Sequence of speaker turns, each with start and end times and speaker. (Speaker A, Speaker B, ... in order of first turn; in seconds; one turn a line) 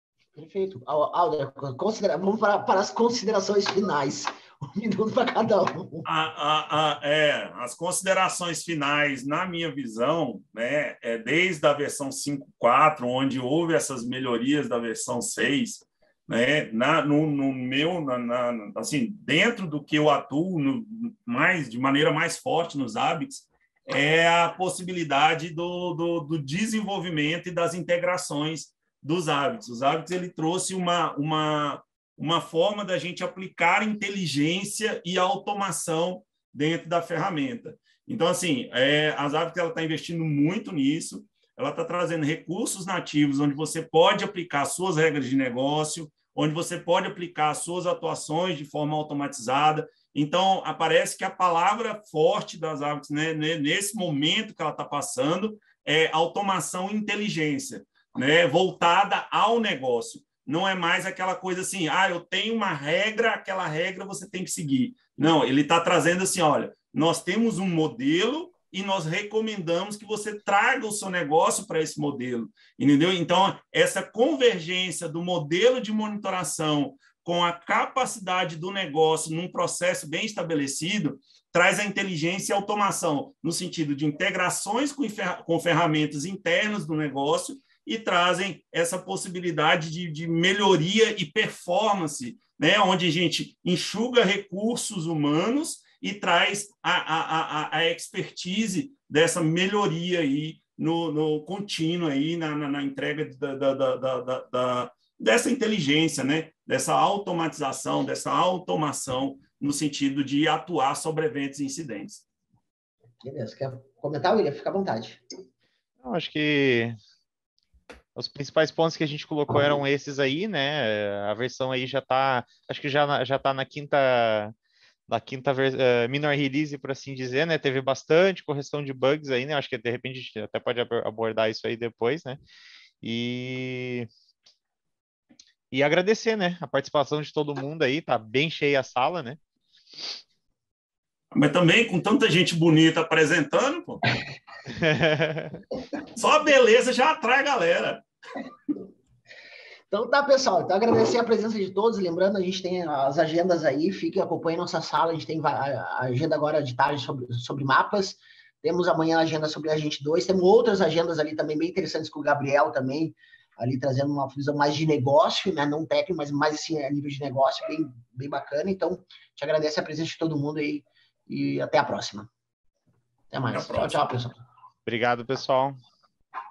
Speaker A: 0.3-6.1
Speaker B: 6.0-112.2
Speaker A: 113.2-115.2
Speaker C: 116.0-116.9
Speaker C: 118.1-124.5
Speaker C: 125.1-132.4
Speaker C: 133.0-134.1
Speaker C: 135.7-139.4
Speaker B: 141.3-144.0
Speaker C: 144.7-145.6
Speaker B: 146.1-148.0
Speaker A: 149.9-172.3
Speaker A: 173.3-174.4
Speaker B: 173.5-174.1
Speaker C: 174.8-175.8